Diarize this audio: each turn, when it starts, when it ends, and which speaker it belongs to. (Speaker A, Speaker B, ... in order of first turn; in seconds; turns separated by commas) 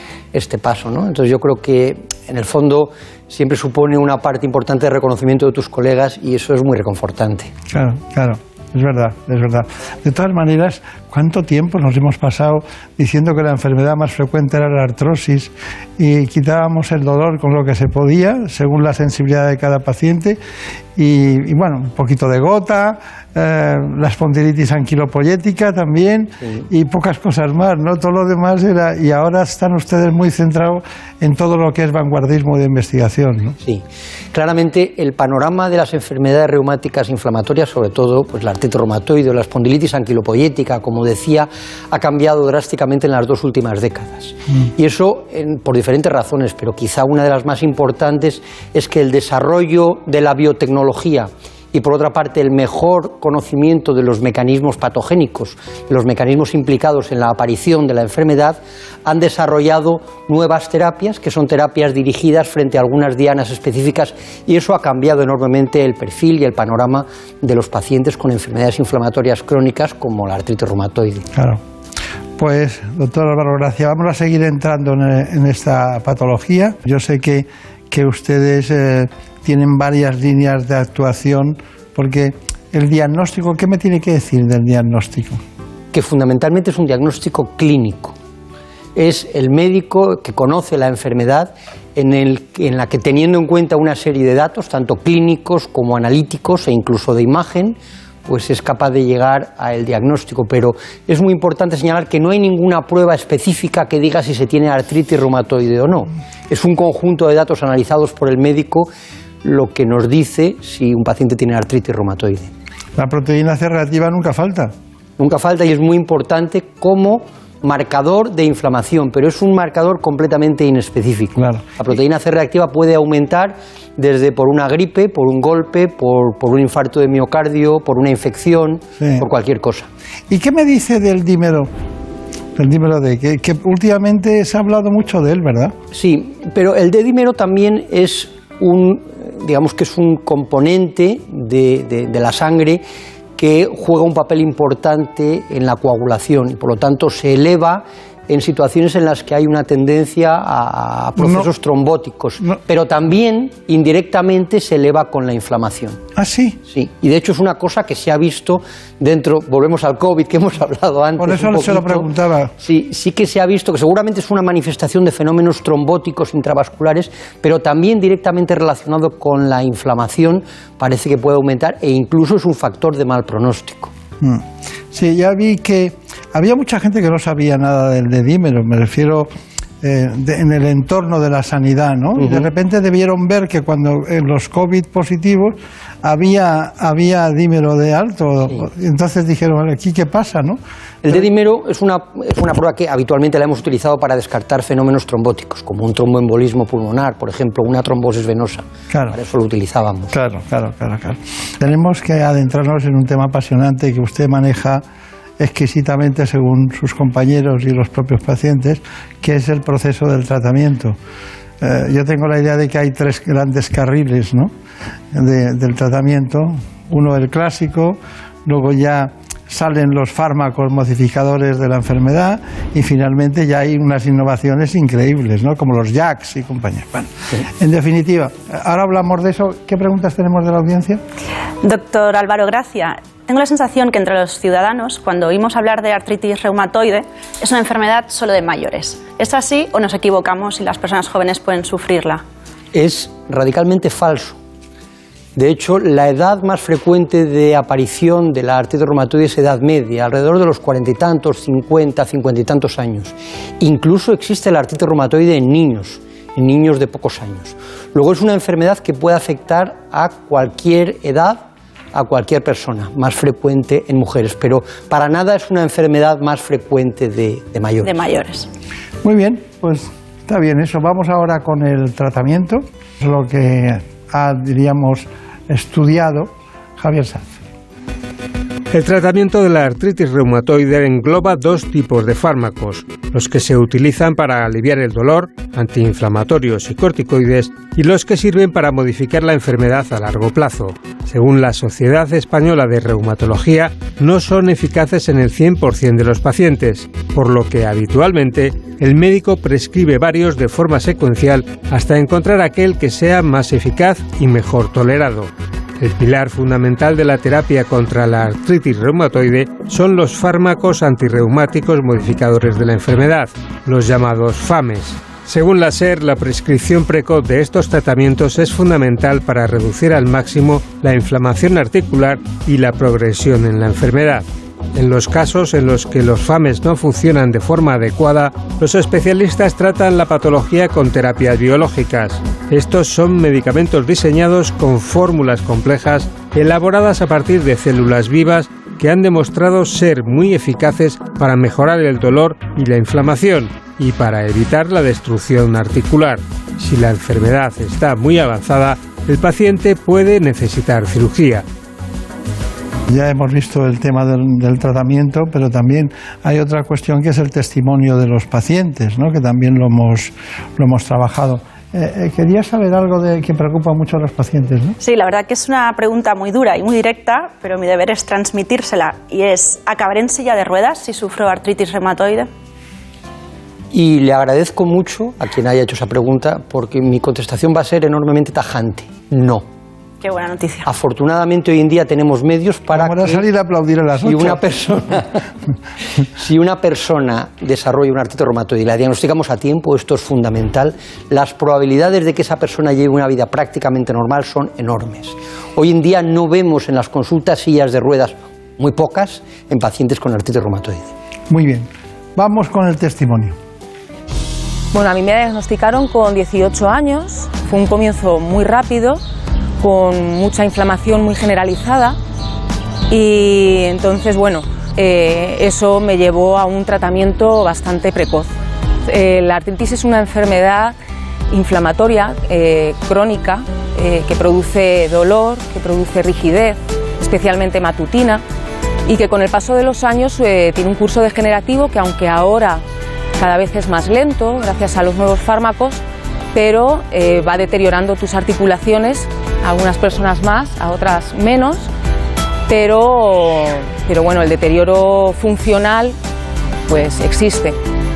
Speaker A: 0.3-7.5, Speaker B: 7.7-20.4, Speaker B: 21.0-33.6, Speaker A: 33.6-71.3, Speaker B: 71.3-71.6, Speaker B: 72.4-85.4, Speaker A: 85.9-88.2, Speaker A: 89.0-108.9, Speaker A: 109.4-112.5, Speaker B: 113.0-114.7, Speaker A: 115.2-129.9, Speaker B: 121.4-121.7, Speaker B: 129.0-129.3, Speaker B: 130.3-131.7, Speaker B: 132.6-135.8, Speaker A: 135.9-142.8, Speaker A: 143.4-156.0, Speaker B: 151.2-151.5, Speaker B: 156.2-156.6, Speaker A: 156.7-162.1, Speaker B: 161.2-162.5, Speaker A: 162.6-173.9, Speaker B: 174.2-179.3, Speaker B: 179.8-190.6, Speaker A: 182.2-182.5, Speaker A: 191.1-200.1, Speaker B: 198.9-199.2, Speaker B: 200.1-204.8, Speaker B: 205.4-211.0, Speaker B: 211.6-214.5, Speaker B: 215.1-231.0, Speaker C: 231.6-242.2, Speaker A: 242.7-244.4, Speaker A: 245.4-261.4, Speaker A: 261.9-268.0, Speaker C: 267.8-268.5, Speaker B: 269.0-277.3, Speaker D: 278.7-351.4, Speaker B: 352.9-364.8, Speaker C: 364.8-372.3, Speaker A: 373.7-379.4, Speaker C: 380.0-380.7, Speaker A: 380.6-383.2, Speaker B: 382.7-384.5, Speaker A: 384.0-385.1, Speaker A: 386.2-400.9, Speaker B: 401.3-403.4, Speaker E: 404.7-409.0, Speaker E: 409.6-412.0, Speaker E: 412.9-418.3, Speaker E: 418.9-420.8, Speaker E: 421.3-428.2, Speaker E: 428.9-432.6, Speaker E: 433.2-435.8, Speaker E: 436.3-441.7, Speaker E: 442.5-445.9, Speaker E: 446.7-447.6